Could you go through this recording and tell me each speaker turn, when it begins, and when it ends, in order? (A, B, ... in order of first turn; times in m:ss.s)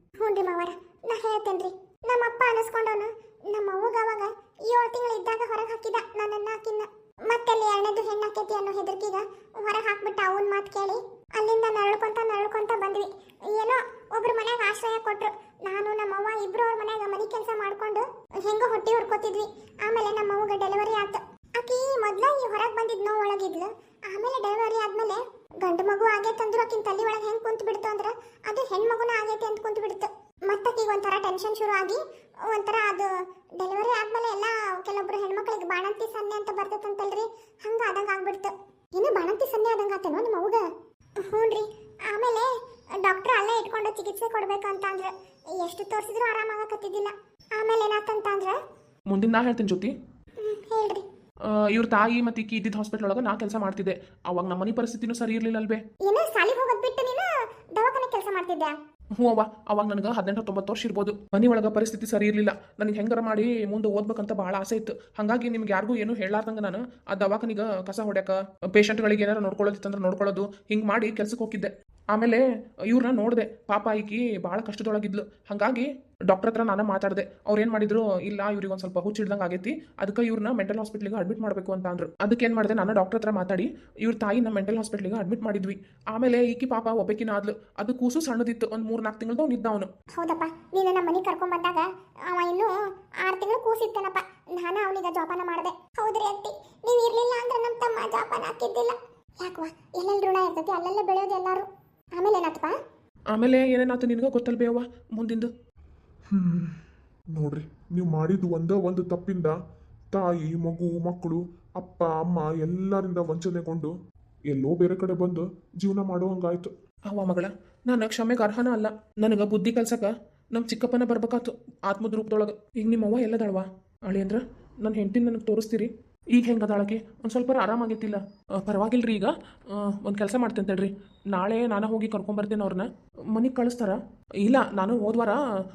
0:00.2-0:40.6 A
0:41.2-0:48.6 A
0:49.1-0:49.9 B
0:50.4-0:51.0 A
0:51.5-0:55.8 B
0:56.0-0:58.8 A
0:59.2-1:29.9 B
1:30.2-1:42.7 A
1:43.3-1:45.5 B
1:46.3-1:46.8 C
1:47.3-1:49.6 C
1:50.1-1:53.9 C
1:54.5-1:56.7 C
1:57.1-2:15.4 B